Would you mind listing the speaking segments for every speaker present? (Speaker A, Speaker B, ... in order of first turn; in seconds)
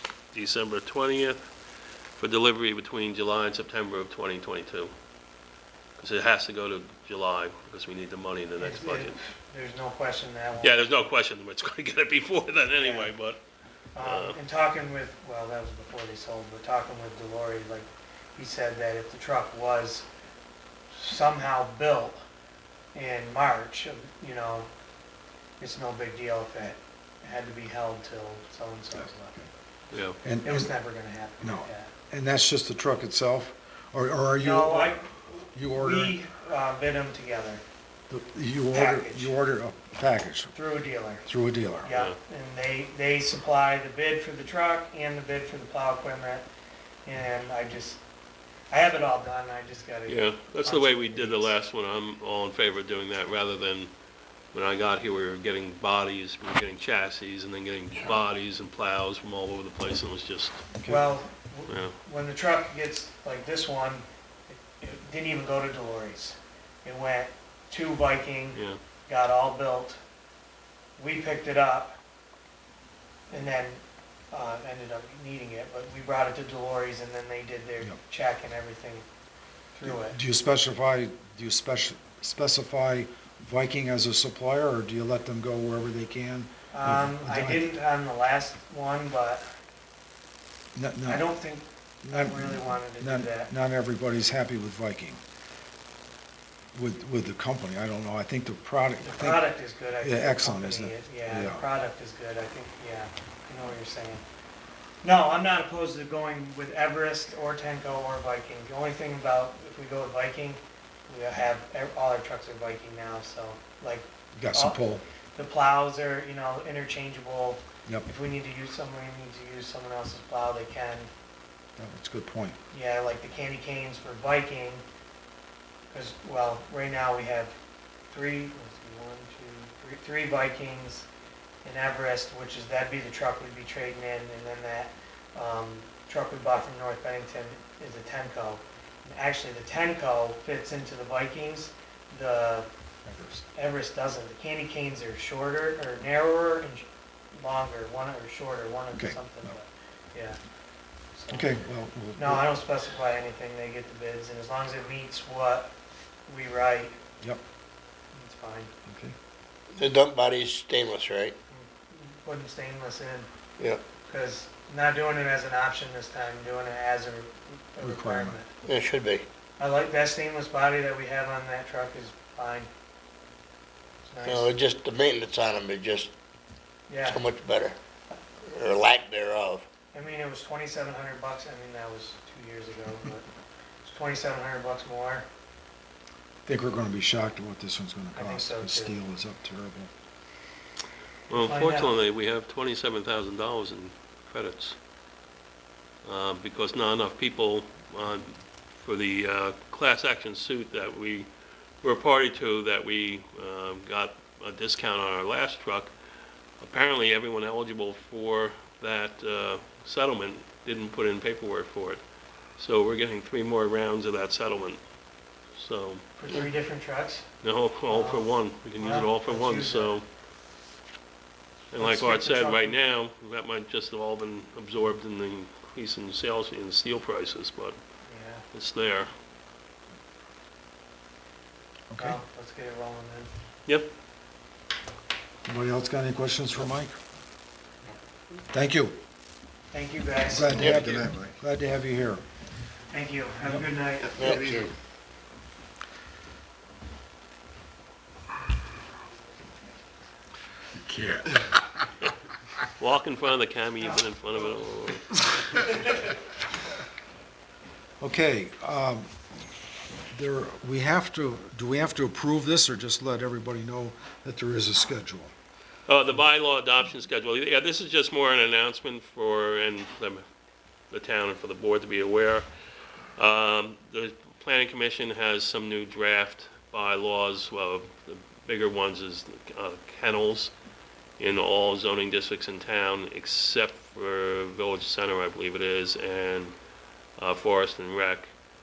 Speaker A: 0.3-1.4, 2.2-4.9, 6.0-9.2, 10.6-13.4, 14.0-14.4, 29.9-30.2, 50.1-53.9, 54.5-60.6, 61.7-62.0, 191.3-194.8, 196.0-201.3, 201.8-205.9, 206.6-212.0, 212.6-214.8, 215.6-216.4, 217.4-220.1, 221.7-227.8, 228.5-229.1, 252.8-255.3, 265.9-270.2, 270.9-272.5, 273.2-280.5, 281.2-286.6, 287.2-288.3
Speaker B: 8.6-10.9, 12.8-13.1, 13.9-20.1, 20.9-22.2, 22.9-24.7, 25.6-29.4, 30.4-31.9, 34.4-37.6, 38.7-39.3, 40.5-41.3, 41.8-46.5, 47.0-48.0, 48.7-51.5, 60.9-70.0, 71.0-72.0, 73.3-79.0, 79.8-80.2, 86.7-89.4, 91.1-93.5, 99.0-104.2, 105.0-114.8, 115.3-121.1, 122.7-124.8, 125.9-127.5, 128.1-131.1, 131.6-142.7, 143.6-150.4, 151.2-151.6, 152.2-155.7, 156.3-157.0, 158.1-158.7, 161.5-163.3, 164.0-168.5, 169.6-172.7, 174.1-174.5, 176.9-177.3, 179.9-183.3, 183.8-185.3, 188.2-188.9, 191.3-191.9, 216.2-217.3, 217.9-220.0, 221.8-222.8, 228.1-228.4, 232.0-233.3, 239.7-240.9, 242.9-244.5
Speaker C: 29.0-29.4, 30.2-30.7, 31.4-36.2, 38.1-40.5, 41.3-41.9, 60.8-61.1, 79.8-87.7, 90.8-91.2, 92.0-95.2, 96.8-99.5, 100.0-101.6, 114.4-115.0, 121.8-122.6, 143.1-143.4, 148.9-149.5, 151.3-152.5, 158.9-159.2, 167.8-168.4, 186.5-189.9, 231.9-232.2, 235.5-236.9, 238.5-239.0, 240.2-242.2, 250.9-251.4, 258.0-259.1, 260.1-265.3
Speaker D: 159.7-161.4, 168.7-169.3, 174.2-176.1, 177.0-177.8, 178.4-179.7, 240.5-241.2, 244.2-244.7